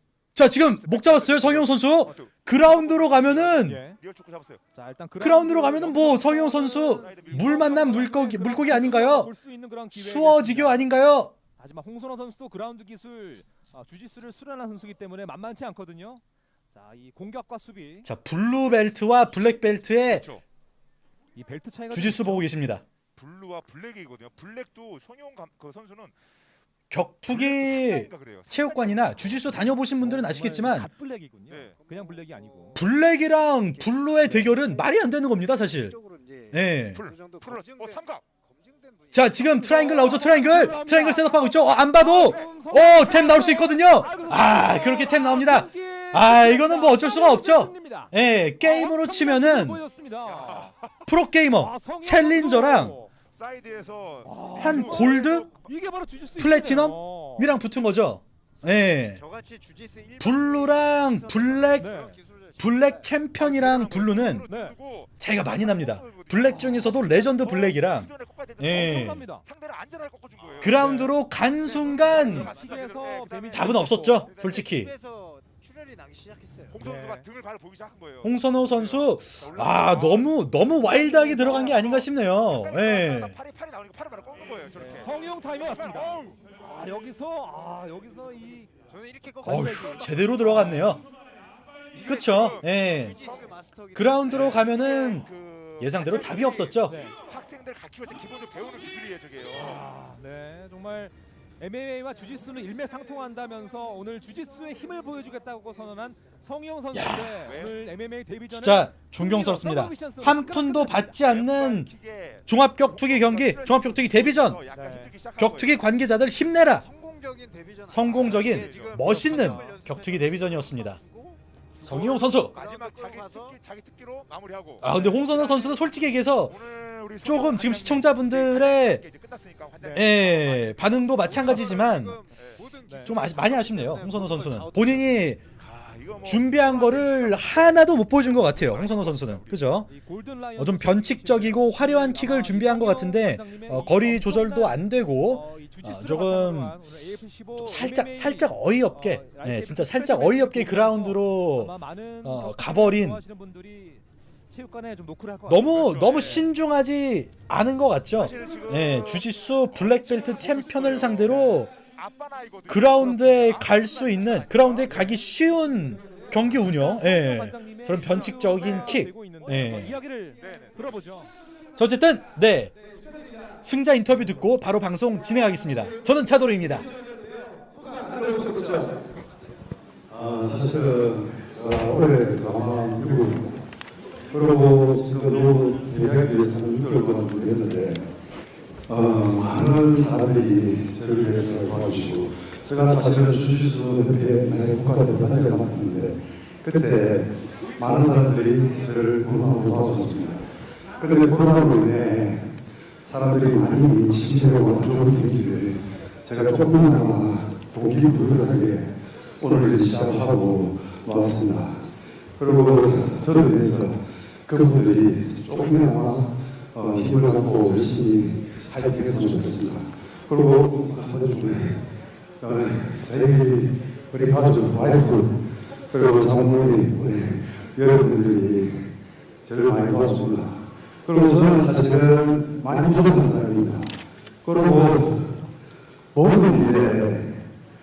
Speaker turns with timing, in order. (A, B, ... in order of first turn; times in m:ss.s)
0:00.3-0:03.8 A
0:00.6-0:02.3 B
0:02.7-0:04.0 C
0:04.0-0:04.6 B
0:04.7-0:10.9 C
0:05.2-0:09.3 A
0:06.9-0:08.1 B
0:09.9-0:11.3 A
0:11.6-0:18.1 C
0:18.0-0:20.3 A
0:20.0-0:20.4 B
0:21.3-0:22.5 C
0:21.9-0:22.8 A
0:23.2-0:26.1 B
0:26.9-0:30.9 A
0:27.3-0:29.5 B
0:30.0-0:32.8 C
0:31.5-0:31.8 B
0:31.7-0:32.9 D
0:32.8-0:35.9 A
0:33.5-0:39.9 D
0:36.5-0:37.0 A
0:36.9-0:38.2 B
0:39.1-0:49.8 A
0:39.5-0:50.7 C
0:50.4-0:50.7 B
0:51.0-0:53.0 A
0:51.5-0:53.1 C
0:53.3-0:55.7 B
0:54.2-0:57.5 C
0:54.6-0:55.4 A
0:56.4-0:59.2 A
0:58.6-1:03.0 D
1:00.2-1:01.9 A
1:01.7-1:02.1 C
1:02.6-1:04.5 A
1:03.4-1:10.8 B
1:04.5-1:04.7 C
1:05.2-1:09.2 A
1:08.7-1:09.4 C
1:10.6-1:12.5 A
1:10.8-1:11.2 C
1:11.6-1:14.6 B
1:12.0-1:14.3 C
1:13.5-1:14.9 A
1:14.2-1:16.8 D
1:16.7-1:20.3 B
1:16.8-1:17.2 C
1:18.2-1:23.3 A
1:20.8-1:22.0 C
1:21.2-1:26.4 B
1:24.9-1:28.7 C
1:28.9-1:30.4 D
1:29.4-1:31.0 C
1:29.4-1:31.0 A
1:31.9-1:33.5 B
1:32.0-1:33.2 A
1:32.8-1:34.4 D
1:33.9-1:37.0 A
1:34.3-1:34.6 C
1:34.3-1:39.9 B
1:36.8-1:37.2 C
1:39.5-1:51.2 C
1:46.9-1:47.4 A
1:47.4-1:47.8 B
1:48.5-1:51.9 A
1:51.2-1:55.9 B
1:52.5-1:54.6 A
1:54.7-1:55.1 C
1:55.4-1:56.8 A
1:56.6-2:03.6 D
1:57.9-2:01.0 A
1:58.1-1:59.8 B
2:01.8-2:11.3 B
2:01.8-2:02.5 A
2:04.8-2:06.6 A
2:04.9-2:05.2 C
2:07.2-2:09.0 A
2:09.8-2:10.1 C
2:09.9-2:12.2 A
2:11.3-2:15.3 D
2:12.4-2:12.6 B
2:12.8-2:13.2 C
2:13.0-2:15.4 A
2:15.6-2:19.8 B
2:16.2-2:19.9 A
2:19.9-2:36.5 C
2:20.6-2:26.8 A
2:27.6-2:31.7 A
2:32.2-2:33.2 A
2:35.5-2:41.7 A
2:38.1-2:45.3 B
2:41.3-2:41.6 C
2:42.7-2:50.0 A
2:46.3-2:51.3 C
2:50.4-2:51.0 B
2:51.8-2:52.7 A
2:52.9-2:53.6 D
2:53.6-2:56.9 A
2:55.2-2:59.1 D
3:00.1-3:03.6 E
3:04.3-3:08.1 E
3:08.9-3:55.5 E
3:56.1-3:57.5 E